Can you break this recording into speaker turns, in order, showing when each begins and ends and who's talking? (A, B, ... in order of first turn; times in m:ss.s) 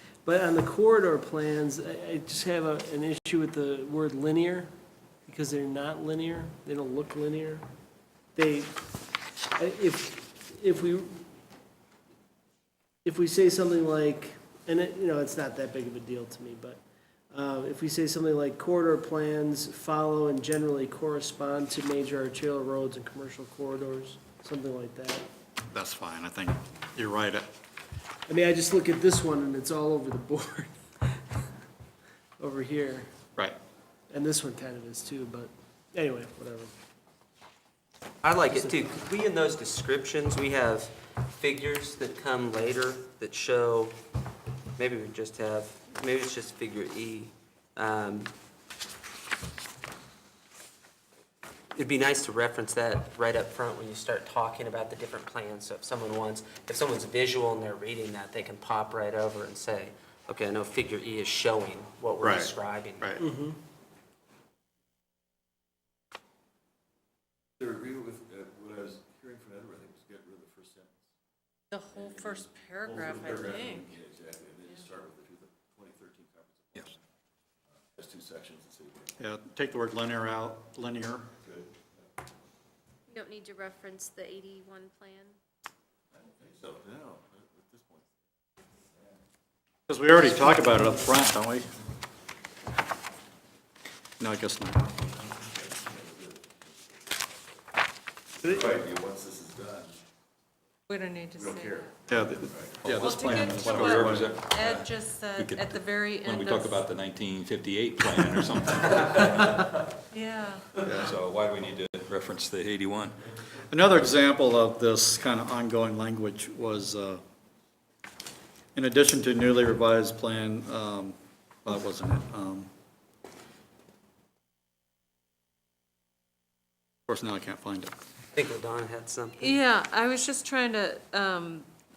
0:00.2-0:04.7 A
0:05.2-0:07.7 A
0:08.3-0:08.8 A
0:09.6-0:11.3 A
0:13.0-0:16.8 A
0:17.3-0:25.2 A
0:25.7-0:27.5 B
0:28.3-0:31.4 A
0:32.4-0:33.1 A
0:34.1-0:36.7 A
0:38.2-0:44.0 C
0:38.5-0:38.9 A
0:44.8-0:48.3 C
0:51.7-1:03.2 C
1:02.2-1:03.2 B
1:03.2-1:03.6 A
1:07.6-1:11.0 D
1:11.7-1:14.0 E
1:11.9-1:17.0 D
1:17.7-1:19.2 D
1:19.2-1:21.3 B
1:21.4-1:22.1 D
1:23.1-1:25.4 F
1:26.1-1:28.1 D
1:29.9-1:31.7 B
1:30.4-1:30.8 F
1:34.2-1:35.0 B
1:35.3-1:37.3 D
1:38.4-1:40.0 D
1:40.9-1:41.9 E
1:41.3-1:44.2 D
1:42.1-1:44.4 B
1:43.0-1:46.8 E
1:44.0-1:49.8 G
1:50.1-1:50.7 E
1:50.8-1:51.1 B
1:51.0-1:53.2 G
1:53.7-1:57.2 B
1:58.7-2:02.7 B
2:07.1-2:07.9 B
2:08.3-2:09.6 C
2:09.4-2:11.7 E